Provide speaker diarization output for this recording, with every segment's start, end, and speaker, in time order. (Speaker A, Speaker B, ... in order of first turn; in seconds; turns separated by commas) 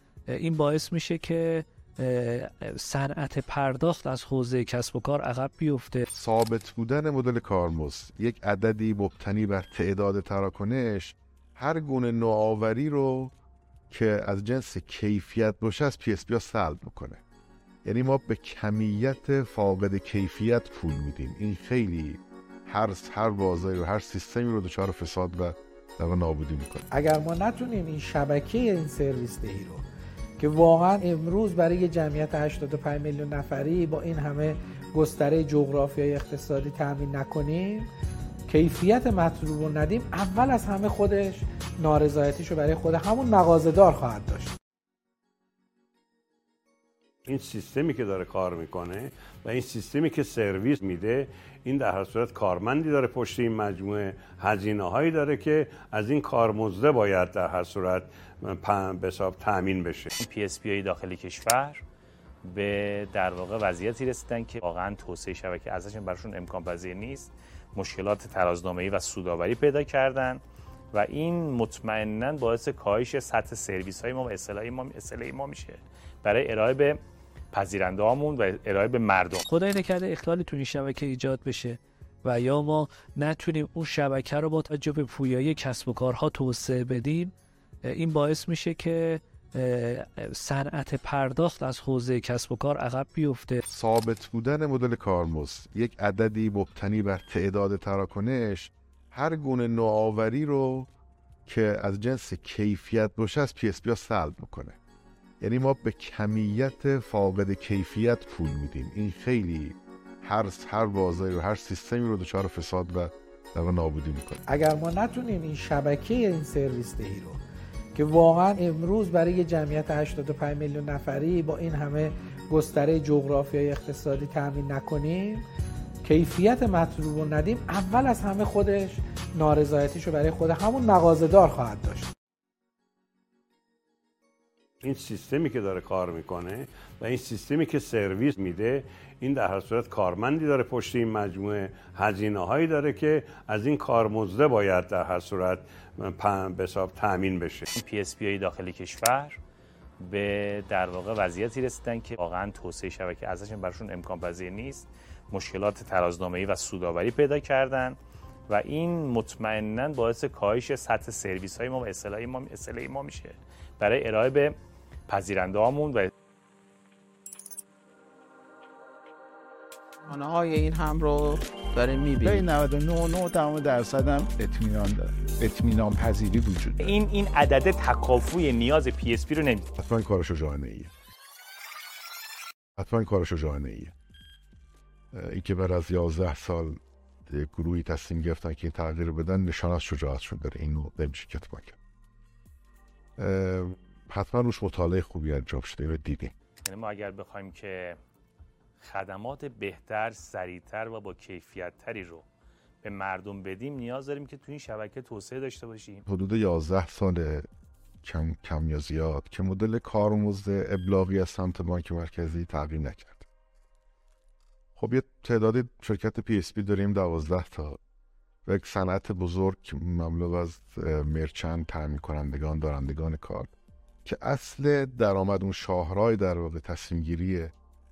Speaker A: 0.3-6.1, Speaker B: 6.1-13.3, Speaker B: 13.9-17.2, Speaker B: 17.8-26.9, Speaker C: 26.9-29.8, Speaker C: 30.4-37.9, Speaker C: 38.5-44.6, Speaker D: 47.3-60.2, Speaker E: 60.2-61.8, Speaker E: 62.4-70.4, Speaker E: 70.9-77.0, Speaker E: 77.5-79.5, Speaker A: 79.5-87.3, Speaker A: 87.8-93.6, Speaker B: 93.6-100.9, Speaker B: 101.5-104.8, Speaker B: 105.4-114.4, Speaker C: 114.5-117.4, Speaker C: 118.0-125.4, Speaker C: 126.0-132.1, Speaker D: 134.8-147.7, Speaker E: 147.7-149.4, Speaker E: 150.0-158.0, Speaker E: 158.5-166.1, Speaker F: 170.1-172.4, Speaker G: 172.2-176.9, Speaker E: 176.8-179.7, Speaker B: 179.8-180.9, Speaker B: 182.8-183.9, Speaker B: 185.1-186.8, Speaker B: 187.3-191.8, Speaker B: 193.2-196.3, Speaker E: 196.7-198.0, Speaker E: 198.8-202.2, Speaker E: 202.8-206.0, Speaker B: 206.1-207.5, Speaker B: 208.0-213.2, Speaker B: 214.8-217.8, Speaker B: 218.5-223.5, Speaker B: 224.1-227.5